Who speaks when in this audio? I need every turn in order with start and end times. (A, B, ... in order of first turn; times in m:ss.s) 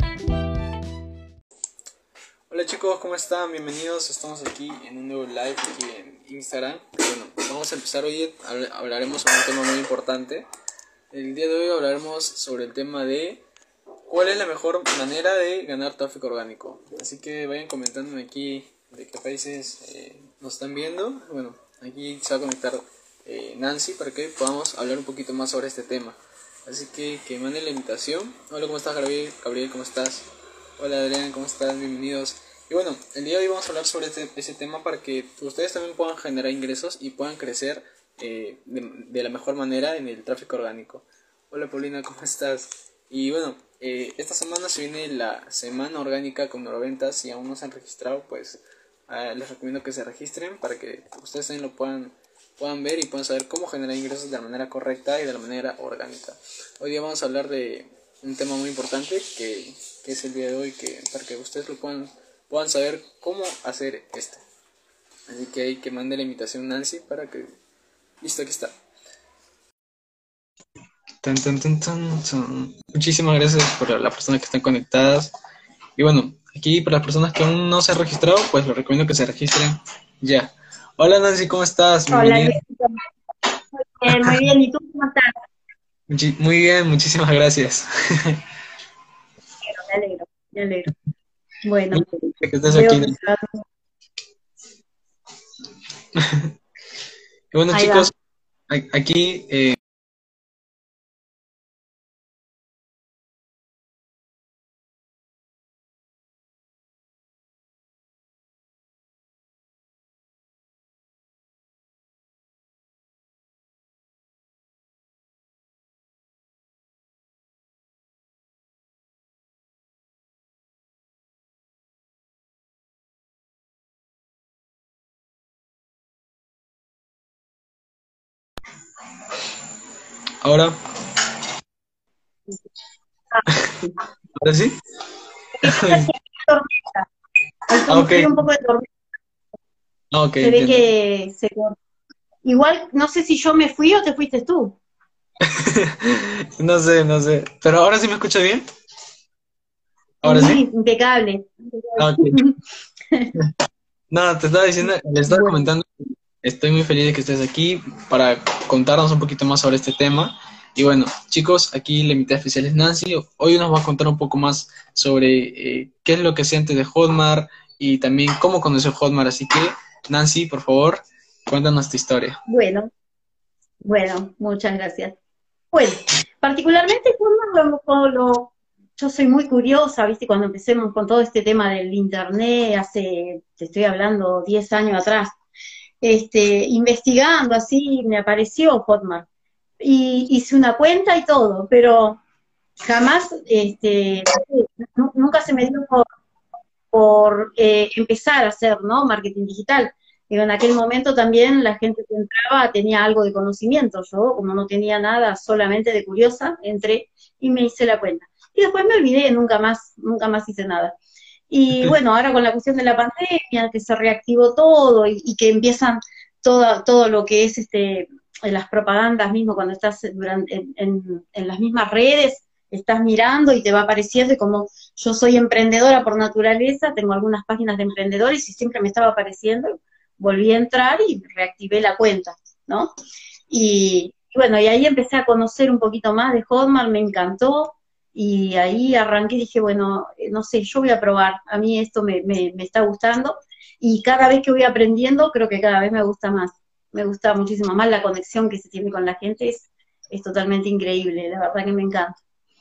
0:02.5-0:10.4 A
0:11.1-0:13.4 A
0:14.1-1:04.4 A
1:05.3-1:07.5 A
1:08.2-1:08.7 A
1:11.2-1:15.3 A
1:16.0-1:22.6 A
1:22.1-1:23.0 B
1:23.8-1:25.3 B
1:26.1-1:28.4 A
1:29.6-1:30.9 B
1:31.6-1:33.6 B
1:31.9-1:33.2 A
1:36.1-1:36.5 A
1:37.5-1:38.1 A
1:37.7-1:38.1 B
1:38.7-1:39.8 A
2:10.4-2:10.8 A
2:13.3-2:13.9 B
2:14.4-2:14.8 A
2:15.6-2:17.1 B
2:15.6-2:16.1 A
2:17.7-2:18.9 B
2:17.9-2:18.3 A
2:20.1-2:20.9 A
2:20.4-2:21.8 B
2:22.4-2:24.8 B
2:25.4-2:28.6 A
2:30.2-2:30.6 A
2:30.2-2:32.6 B
2:32.0-2:32.4 A
2:34.1-2:35.9 A
2:35.3-2:35.7 B
2:36.4-2:52.4 A
2:52.5-2:52.9 B
2:53.8-2:55.2 B
2:55.7-3:05.3 B
3:06.0-3:09.3 B
3:09.8-3:12.2 B
3:12.8-3:16.1 B
3:16.9-3:31.0 B
3:31.5-3:52.9 B
3:53.5-4:12.2 B